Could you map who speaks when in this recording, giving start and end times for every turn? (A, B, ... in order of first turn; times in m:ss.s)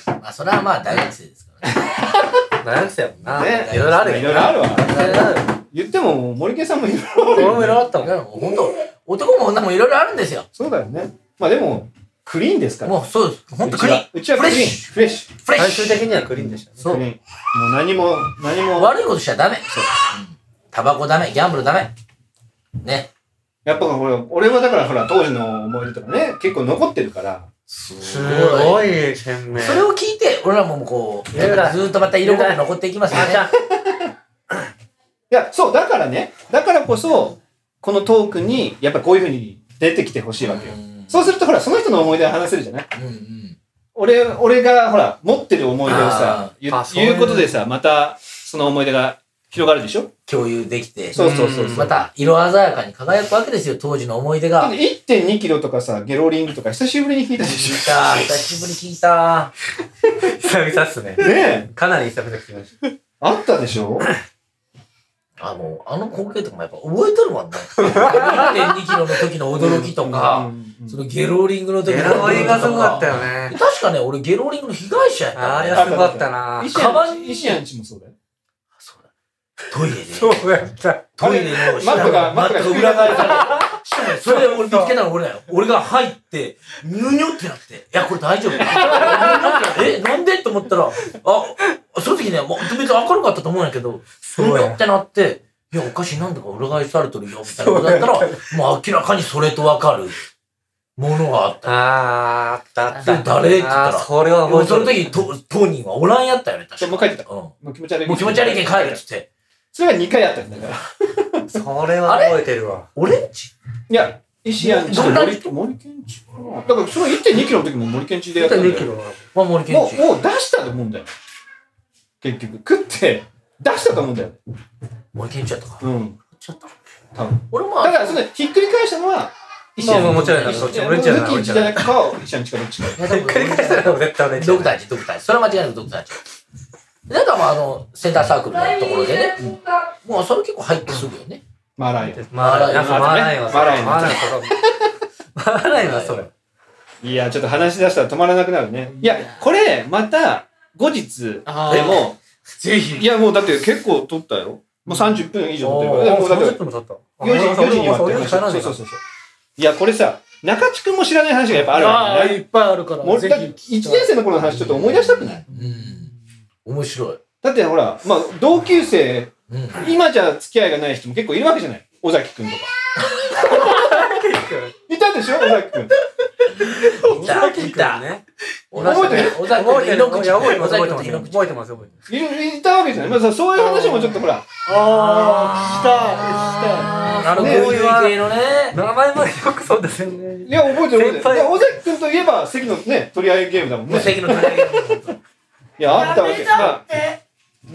0:00.2-0:01.7 A
0:01.7-0:02.4 B
0:02.6-0:05.5 C
0:03.2-0:05.4 A
0:03.3-0:07.8 B
0:07.3-0:08.1 C
0:07.9-0:10.5 A
0:10.5-0:13.0 B
0:12.8-0:16.0 A
0:13.6-0:15.3 B
0:15.5-0:16.9 C
0:16.8-0:18.9 B
0:16.8-0:17.0 A
0:18.7-0:21.9 A
0:22.8-0:23.1 A
0:23.6-0:27.5 B
0:27.7-0:28.9 A
0:28.0-0:29.9 C
0:29.5-0:33.5 A
0:31.3-0:33.5 C
0:33.1-0:34.1 B
0:35.3-0:42.9 B
0:40.4-0:41.3 A
0:42.9-0:43.6 A
0:43.9-0:50.1 B
0:45.8-0:46.5 A
0:46.7-0:47.6 C
0:50.3-0:54.8 A
0:51.1-0:52.0 B
0:51.1-0:52.0 C
0:54.6-0:58.8 B
0:57.4-0:59.5 A
1:00.2-1:02.7 C
1:01.2-1:01.7 B
1:03.2-1:04.1 B
1:05.4-1:17.6 A
1:07.8-1:08.7 C
1:09.5-1:11.0 B
1:11.8-1:13.6 C
1:12.1-1:12.9 B
1:15.3-1:16.8 C
1:15.7-1:18.1 B
1:18.8-1:19.1 A
1:19.7-1:20.6 A
1:19.9-1:22.3 C
1:21.1-1:40.2 A
1:21.2-1:23.6 B
1:23.1-1:24.9 C
1:28.6-1:29.7 C
1:34.2-1:34.8 C
1:37.6-1:38.5 C
1:41.0-1:41.7 A
1:41.6-1:45.1 C
1:42.9-1:47.5 A
1:46.8-1:49.0 B
1:48.0-1:49.3 A
1:49.7-1:51.6 B
1:51.4-1:52.9 C
1:52.0-1:52.4 A
1:52.9-1:53.5 A
1:53.9-1:58.9 B
1:54.6-1:55.5 A
1:58.4-1:59.2 C
1:59.3-2:00.0 A
1:59.7-2:01.1 B
2:02.2-2:04.4 B
2:05.1-2:06.7 A
2:05.8-2:06.2 B
2:07.1-2:13.0 B
2:07.5-2:08.2 A
2:09.8-2:10.8 A
2:09.8-2:12.0 C
2:13.0-2:16.2 A
2:13.0-2:14.8 C
2:17.1-2:19.4 A
2:20.0-2:21.4 A
2:21.8-2:24.6 B
2:22.2-2:24.6 C
2:22.3-2:23.3 A
2:25.4-2:26.3 C
2:25.8-2:26.3 A
2:27.0-2:32.2 B
2:31.5-2:32.0 D
2:31.6-2:33.0 A
2:31.7-2:32.0 C
2:33.0-2:36.6 B
2:35.6-2:38.8 C
2:37.2-2:39.0 B
2:39.6-2:42.4 B
2:41.7-2:44.1 D
2:43.0-2:45.4 B
2:44.4-2:46.1 A
2:46.6-2:47.2 A
2:47.4-2:52.7 B
2:49.5-2:49.9 A
2:53.1-2:53.8 A
2:53.3-2:54.7 C
2:54.9-2:55.9 B
2:56.4-2:58.1 A
2:56.6-2:58.2 C
2:58.7-3:01.6 A
2:58.7-3:01.9 C
2:58.8-2:59.6 B
3:02.1-3:04.4 B
3:03.7-3:07.2 D
3:04.8-3:08.8 A
3:05.5-3:08.2 C
3:07.3-3:07.8 B
3:08.7-3:11.6 C
3:10.4-3:14.4 B
3:13.9-3:15.2 A
3:14.3-3:15.0 C
3:15.8-3:17.0 B